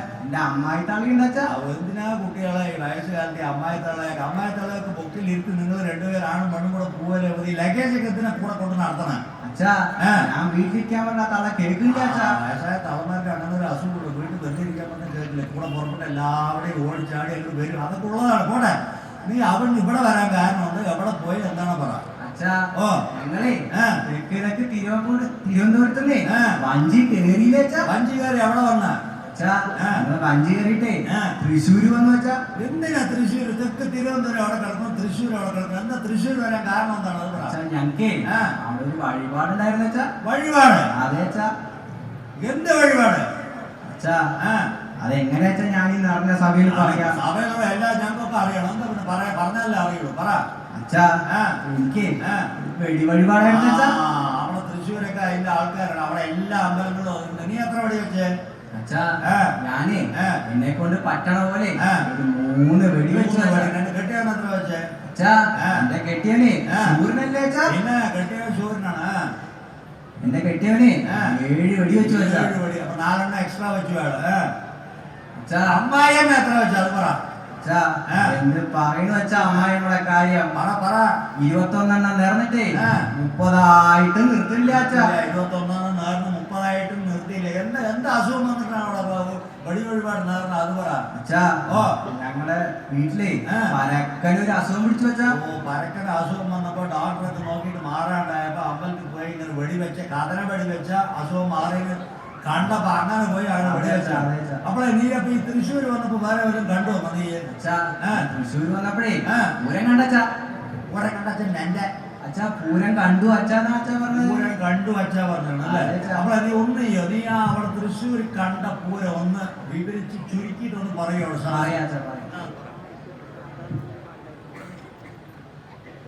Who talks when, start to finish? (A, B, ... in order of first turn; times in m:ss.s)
0:00.2-0:01.5 A
0:01.5-0:09.2 B
0:09.4-0:12.4 A
0:10.0-0:10.3 B
0:11.9-0:22.0 B
0:22.2-0:27.9 A
0:22.8-0:23.0 B
0:26.3-0:26.6 B
0:27.8-0:29.0 B
0:29.3-0:32.4 A
0:29.8-0:30.0 B
0:31.1-0:31.3 B
0:32.6-0:37.6 B
0:37.4-0:40.1 A
0:40.2-0:40.9 B
0:40.9-0:41.5 A
0:42.4-0:43.3 B
0:43.8-0:44.2 A
0:44.4-0:44.7 B
0:45.0-0:47.2 A
0:46.7-0:50.4 B
0:50.7-0:51.1 A
0:51.3-0:51.6 B
0:51.6-0:53.9 A
0:52.2-0:52.5 B
0:53.4-0:58.4 B
0:58.7-0:59.1 A
0:59.3-0:59.5 B
0:59.6-1:03.7 A
1:00.2-1:00.4 B
1:03.0-1:04.9 B
1:05.1-1:07.7 A
1:06.7-1:07.0 B
1:07.7-1:09.3 B
1:10.2-1:12.5 A
1:12.0-1:14.5 B
1:15.4-1:15.8 A
1:15.7-1:17.2 B
1:17.6-1:20.6 A
1:20.5-1:21.1 B
1:21.4-1:25.1 A
1:22.8-1:23.0 B
1:24.7-1:31.0 B
1:31.1-1:35.4 A
1:31.7-1:32.0 B
1:35.3-1:47.4 B
1:43.6-1:44.6 A
1:47.6-1:50.2 A
1:49.3-1:49.5 B
1:50.9-1:51.9 B
1:52.2-1:54.5 A
1:54.1-2:01.8 B
1:55.6-1:56.3 A
2:01.5-2:02.3 A